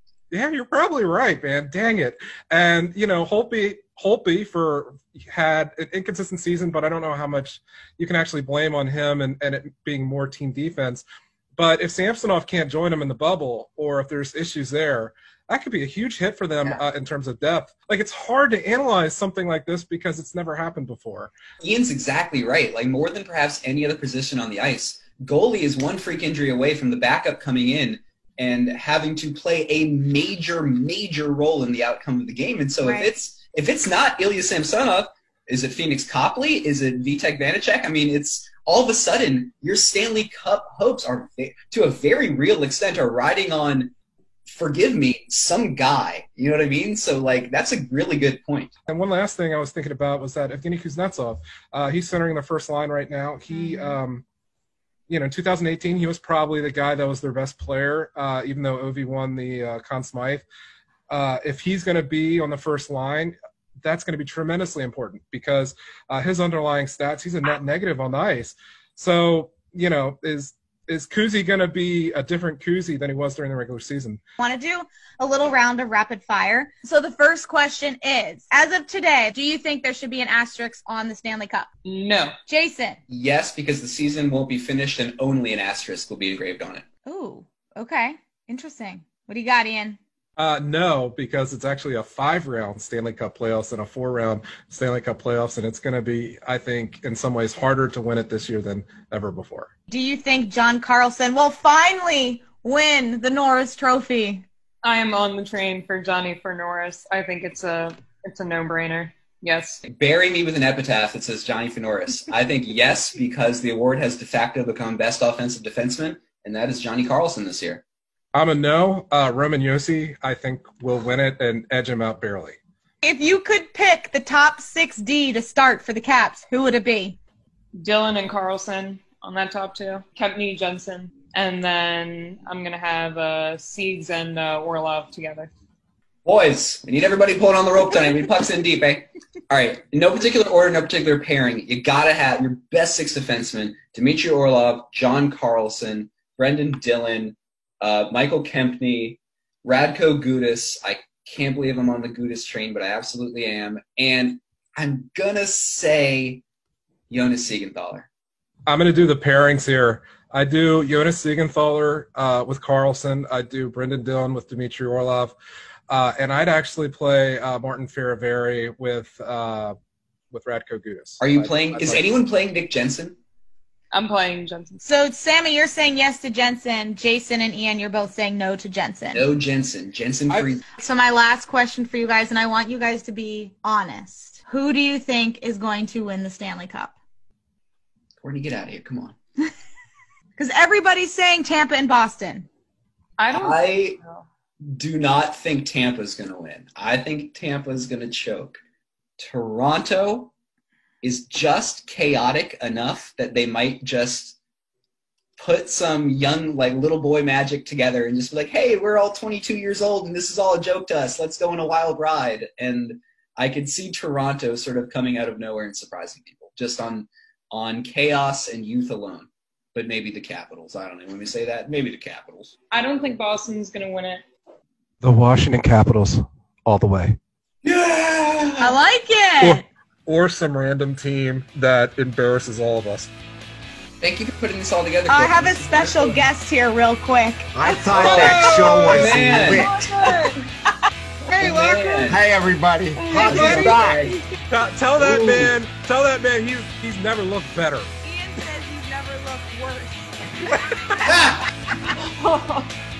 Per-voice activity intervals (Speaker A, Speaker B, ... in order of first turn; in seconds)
Speaker A: 0.3-11.1, 11.6-21.3, 48.9-54.2, 55.1-60.5, 61.1-74.2, 90.4-99.7, 118.3-122.6, 158.7-165.3, 165.9-169.8, 170.3-172.1, 225.0-227.2, 229.4-233.1, 243.3-243.7, 244.5-247.9
Speaker B: 21.6-43.9, 44.5-48.7, 83.1-86.8, 109.8-117.8, 136.2-156.4, 157.1-158.1, 171.2-173.2, 179.1-180.6, 188.2-189.2, 193.3-194.0, 194.7-198.6, 199.2-200.3, 201.0-204.4, 205.4-222.5, 227.6-228.8, 234.0-236.3, 237.9-239.7, 241.3-242.2, 243.7-244.1, 245.0-245.3
Speaker C: 32.8-33.1, 53.5-54.0, 74.4-81.7, 82.5-83.0, 87.1-90.0, 99.9-104.5, 123.0-127.2, 174.8-179.3, 180.8-186.9, 190.4-192.5, 228.6-229.7, 235.1-238.8, 241.4-241.9, 243.3-244.2, 248.0-250.5
Speaker D: 81.8-82.3, 104.8-109.8, 127.8-135.5, 173.9-174.8, 193.2-194.3, 222.7-224.2, 237.7-240.4, 243.0-244.1, 252.2-252.7
Speaker E: 237.5-239.8, 241.4-244.1